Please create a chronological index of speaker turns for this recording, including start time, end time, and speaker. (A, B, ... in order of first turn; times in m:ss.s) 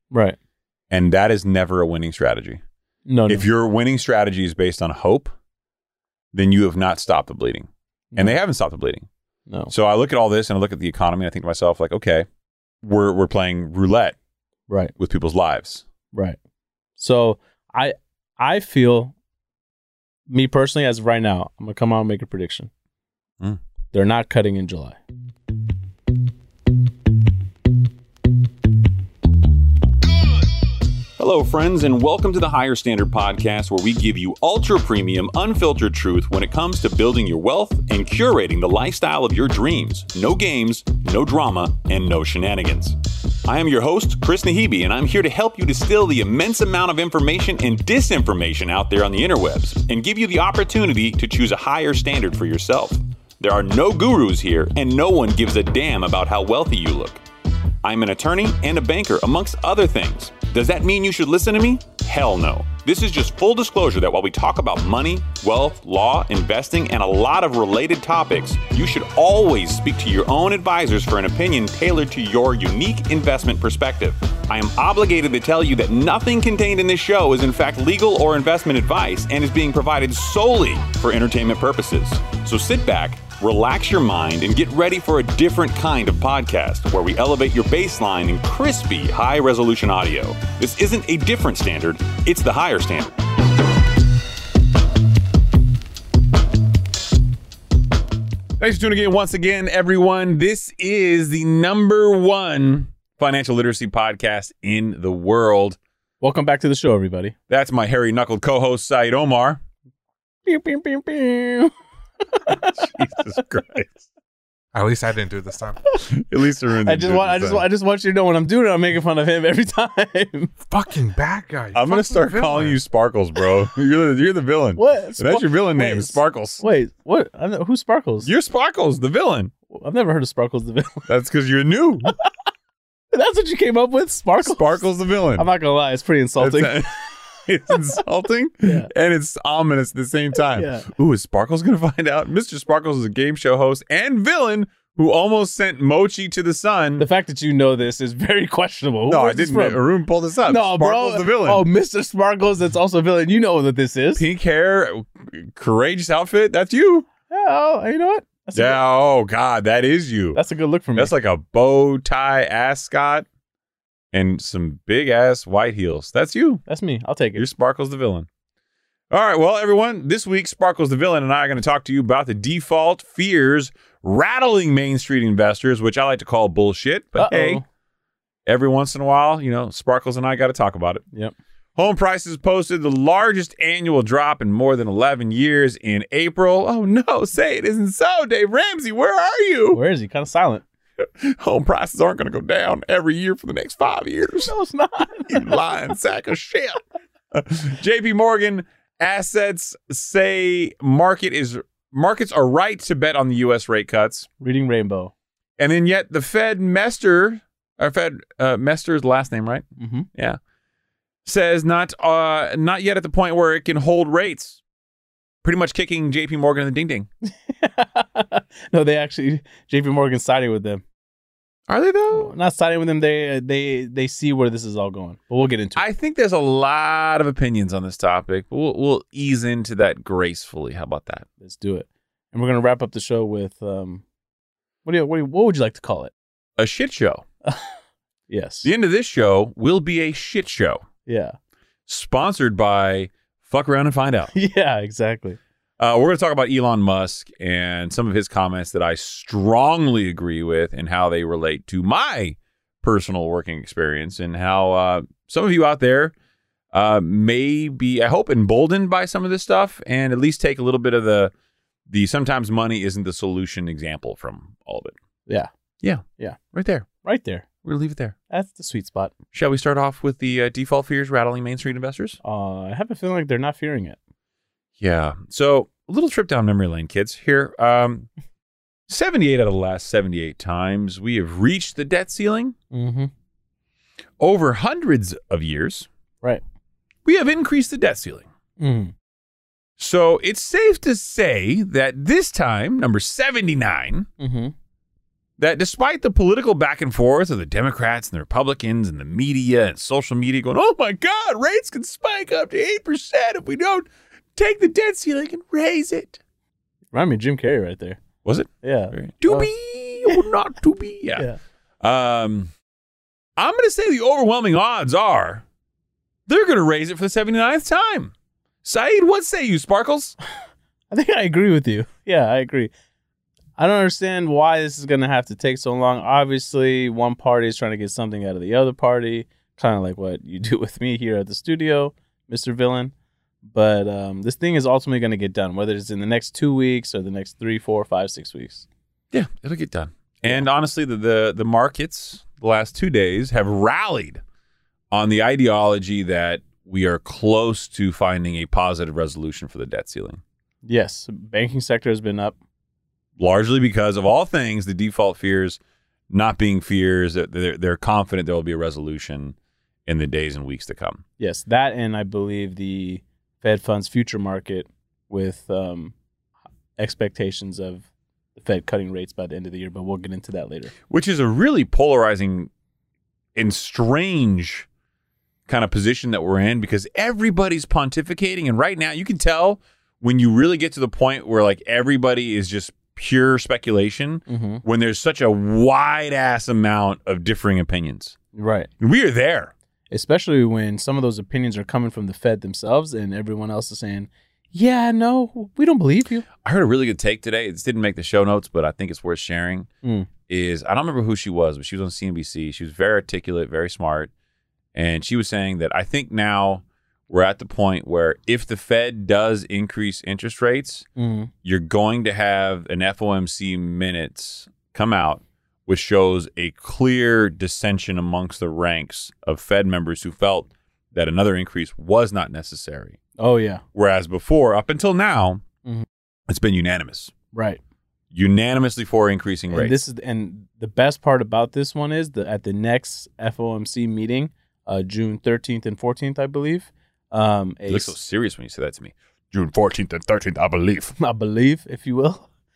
0:00.1-0:00.4 A
0:00.9-0:02.6 B
0:03.1-0:03.5 A
0:03.3-0:05.3 B
0:06.3-0:09.1 B
0:08.1-0:08.4 A
0:09.5-0:09.7 A
0:09.7-0:12.3 B
0:12.8-0:14.2 B
0:14.7-0:14.9 A
0:15.0-0:15.8 B
0:17.0-0:19.1 A
0:20.3-0:22.7 A
0:23.9-0:25.0 A
0:31.2-0:57.2 B
0:57.8-1:33.2 B
1:38.6-1:45.8 B
1:46.2-1:47.3 A
1:47.5-1:49.6 B
1:50.5-1:51.7 A
1:52.3-1:52.7 A
1:52.5-1:54.1 B
1:54.7-1:55.8 C
1:56.0-1:57.6 B
1:56.8-2:00.5 A
2:00.7-2:02.8 C
2:01.7-2:06.6 B
2:04.8-2:08.3 A
2:08.2-2:09.5 B
2:09.7-2:11.1 A
2:11.1-2:12.1 B
2:13.1-2:14.8 A
2:14.4-2:15.5 B
2:15.4-2:17.1 A
2:16.4-2:27.1 B
2:17.7-2:18.0 A
2:18.6-2:18.9 A
2:20.4-2:20.9 A
2:27.0-2:29.8 A
2:29.1-2:31.6 B
2:30.4-2:34.2 A
2:34.2-2:37.1 B
2:37.3-2:38.8 A
2:38.5-2:40.4 B
2:40.4-2:41.1 A
2:41.0-2:43.3 B
2:44.1-2:46.6 B
2:46.7-2:47.4 A
2:47.4-2:48.3 B
2:49.1-2:57.6 B
2:57.2-2:57.6 A
2:58.5-3:01.0 B
3:01.8-3:09.8 B
3:09.7-3:10.6 A
3:11.0-3:14.5 B
3:14.3-3:15.8 A
3:15.3-3:16.8 B
3:17.3-3:24.3 B
3:24.4-3:25.1 A
3:25.6-3:30.4 B
3:29.8-3:30.1 A
3:31.2-3:34.6 B
3:35.4-3:37.1 B
3:37.2-3:40.8 A
3:41.7-3:42.3 B
3:42.1-3:45.9 A
3:45.8-3:51.3 B
3:51.4-3:54.0 A
3:54.8-3:56.1 A
3:56.6-3:57.2 B
3:57.5-3:57.7 A
3:58.3-3:58.7 A
3:58.6-4:00.8 B
4:01.1-4:01.4 A
4:01.9-4:04.3 B
4:04.3-4:05.4 A
4:05.8-4:16.1 B
4:16.7-4:21.3 B
4:21.9-4:25.0 B
4:25.8-4:26.9 B
4:27.0-4:27.5 A
4:27.6-4:28.2 B
4:28.3-4:29.2 A
4:29.3-4:32.2 B
4:32.2-4:34.0 A
4:34.8-4:38.1 B
4:38.9-4:42.6 B
4:42.7-4:43.1 A
4:44.2-4:45.9 B
4:47.0-4:48.3 B
4:48.6-4:48.9 A
4:49.8-4:54.1 B
4:54.2-4:54.5 A
4:55.4-5:06.2 B
5:06.9-5:08.0 A
5:08.2-5:11.3 B
5:08.6-5:09.5 A
5:11.8-5:12.5 B
5:13.4-5:15.4 B
5:16.3-5:18.1 B
5:18.6-5:20.2 B
5:20.9-5:22.7 A
5:23.6-5:32.9 A
5:33.5-5:38.6 A
5:39.1-5:44.2 B
5:44.9-5:50.2 B
5:50.6-5:52.4 A
5:53.2-6:01.0 B
6:01.2-6:05.9 A
6:06.8-6:07.8 A
6:08.4-6:10.7 A
6:10.9-6:12.5 B
6:13.4-6:14.7 B
6:15.5-6:28.2 B
6:24.3-6:24.6 A
6:28.3-6:28.7 A
6:28.8-6:29.5 B
6:29.9-6:36.3 A
6:36.4-6:39.7 B
6:39.8-6:40.1 A
6:40.3-6:44.1 B
6:44.8-6:50.9 B
6:51.0-6:51.3 A
6:51.4-7:03.0 B
7:03.2-7:03.6 A
7:03.7-7:05.4 B
7:06.3-7:07.1 B
7:07.3-7:07.6 A
7:08.1-7:09.8 B
7:09.5-7:18.0 A
7:17.7-7:20.9 B
7:21.0-7:22.3 A